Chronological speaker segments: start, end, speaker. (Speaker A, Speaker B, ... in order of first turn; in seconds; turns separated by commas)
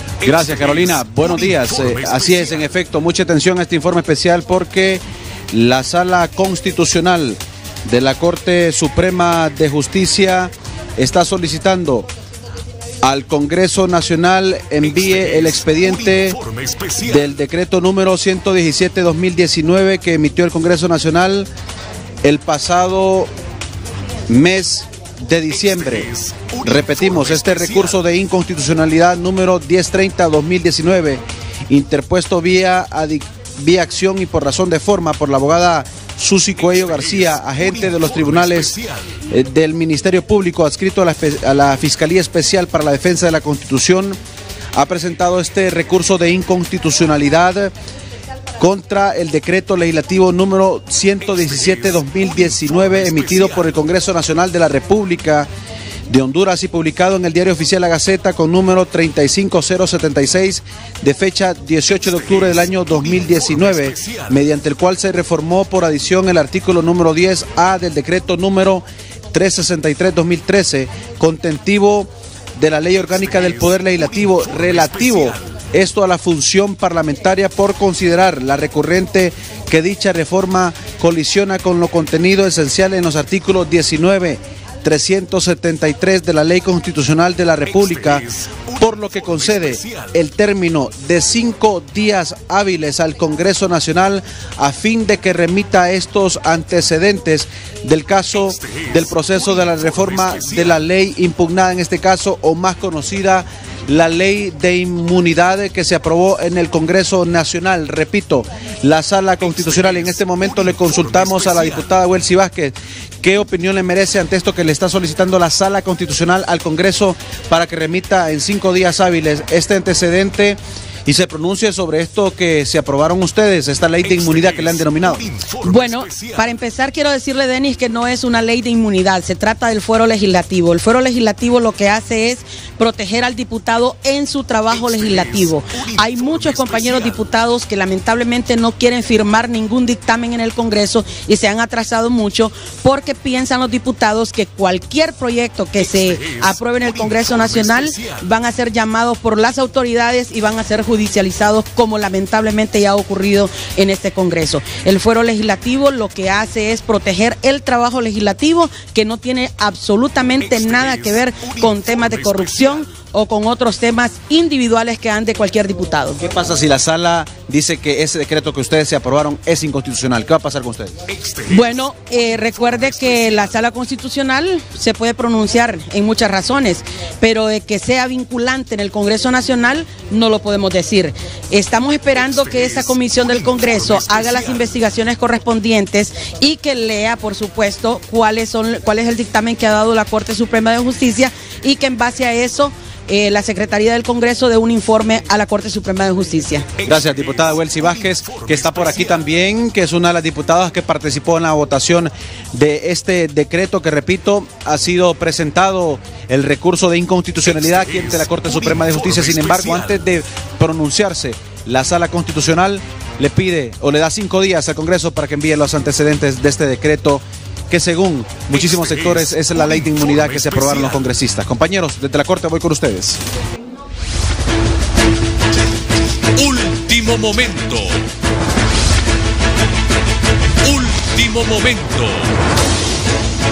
Speaker A: 0.2-2.6, Speaker B: 0.2-12.1, Speaker B: 13.0-16.4, Speaker A: 14.8-17.2, Speaker B: 17.0-21.5, Speaker B: 22.2-23.3, Speaker B: 24.3-26.1, Speaker A: 25.6-28.0, Speaker B: 26.6-38.8, Speaker A: 36.7-39.0, Speaker B: 39.3-44.2, Speaker B: 44.8-47.7, Speaker B: 48.6-55.5, Speaker A: 51.4-53.7, Speaker B: 56.1-88.3, Speaker A: 62.1-64.3, Speaker A: 73.2-75.5, Speaker A: 87.7-90.1, Speaker B: 88.8-125.3, Speaker A: 98.5-100.7, Speaker A: 109.4-111.8, Speaker A: 124.0-126.4, Speaker C: 125.6-166.2, Speaker A: 134.7-137.2, Speaker A: 145.8-148.2, Speaker A: 160.4-162.8, Speaker B: 166.2-170.9, Speaker A: 171.1-171.8, Speaker C: 171.5-196.7, Speaker A: 172.6-173.5, Speaker A: 182.3-184.6, Speaker A: 196.8-199.2, Speaker B: 196.8-223.2, Speaker A: 207.5-209.9, Speaker A: 218.5-221.0, Speaker A: 226.4-228.0, Speaker A: 230.6-232.3